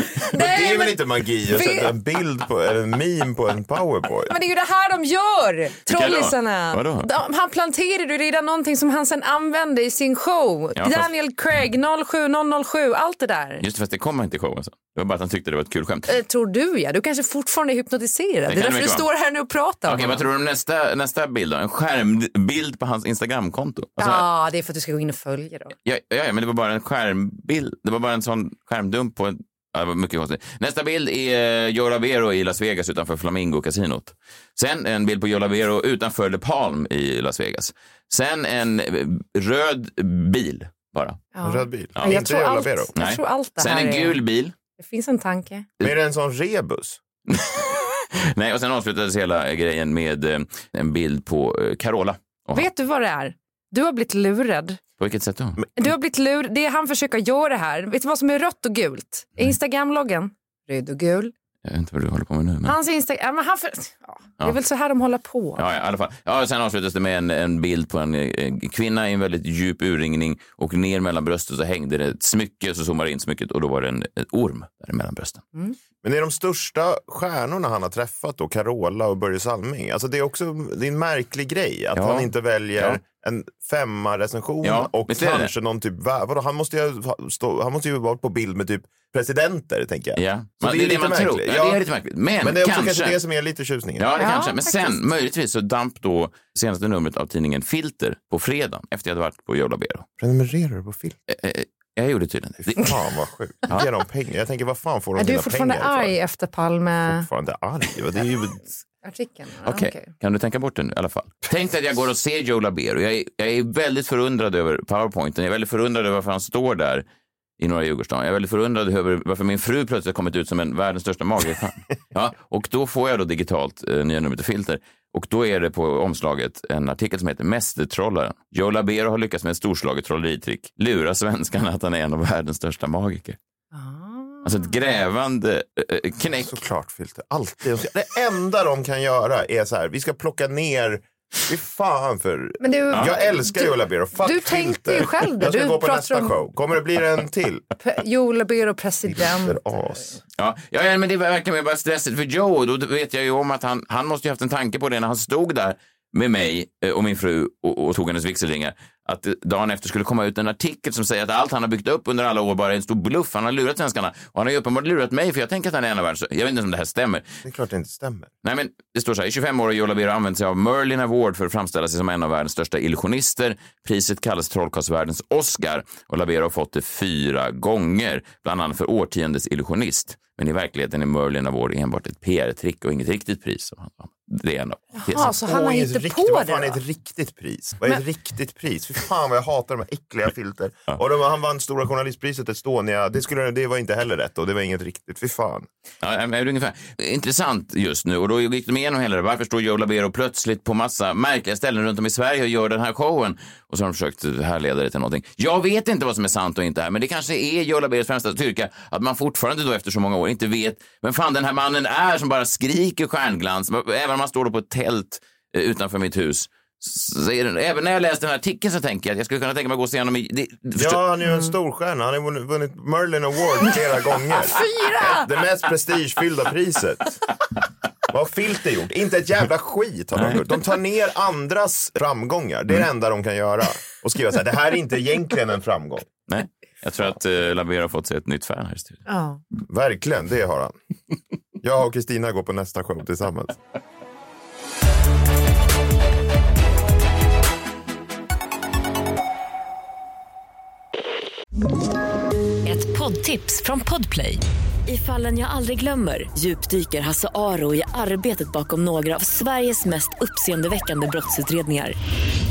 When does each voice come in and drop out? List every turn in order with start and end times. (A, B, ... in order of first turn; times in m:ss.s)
0:00.3-0:01.9 A
0:00.3-0:04.3 B
0:04.3-0:13.6 A
0:05.9-0:07.1 C
0:10.8-0:11.1 C
0:13.6-0:16.1 C
0:16.1-0:20.2 A
0:18.5-0:19.0 C
0:19.8-0:24.2 C
0:24.0-0:25.7 A
0:25.8-0:41.2 C
0:41.3-0:44.2 A
0:41.4-0:42.9 B
0:42.9-0:44.5 C
0:44.8-0:45.7 A
0:45.8-0:47.0 B
0:47.3-0:52.6 C
0:52.5-0:54.8 A
0:55.0-0:55.6 C
0:55.8-1:01.3 A
1:01.6-1:02.7 C
1:02.6-1:05.6 A
1:05.6-1:15.4 C
1:16.0-1:31.8 B
1:21.9-1:23.0 C
1:24.6-1:25.5 C
1:30.2-1:33.2 C
1:32.4-1:34.1 B
1:34.0-1:40.0 C
1:34.2-1:35.0 A
1:40.2-1:41.2 B
1:41.3-1:43.0 C
1:42.6-1:46.2 B
1:45.2-1:47.3 A
1:47.0-1:48.7 B
1:49.0-1:50.1 A
1:49.6-1:57.0 C
1:57.6-2:13.4 C
2:13.7-2:14.7 A
2:14.4-2:16.5 C
2:16.4-2:27.6 B
2:22.6-2:26.3 A
2:27.8-2:29.6 A
2:29.2-2:30.1 B
2:30.4-2:47.4 C
2:47.4-2:48.3 B
2:48.4-3:05.3 C
3:05.0-3:06.8 A
3:05.2-3:15.7 B
3:16.0-3:41.0 C
3:40.8-3:47.1 B
3:44.4-3:45.3 A
3:48.1-3:56.1 B
3:50.1-3:50.4 C
3:56.3-3:59.0 C
3:59.1-3:59.4 A
3:59.7-4:00.8 B
4:01.6-4:03.6 B
4:12.6-4:22.0 D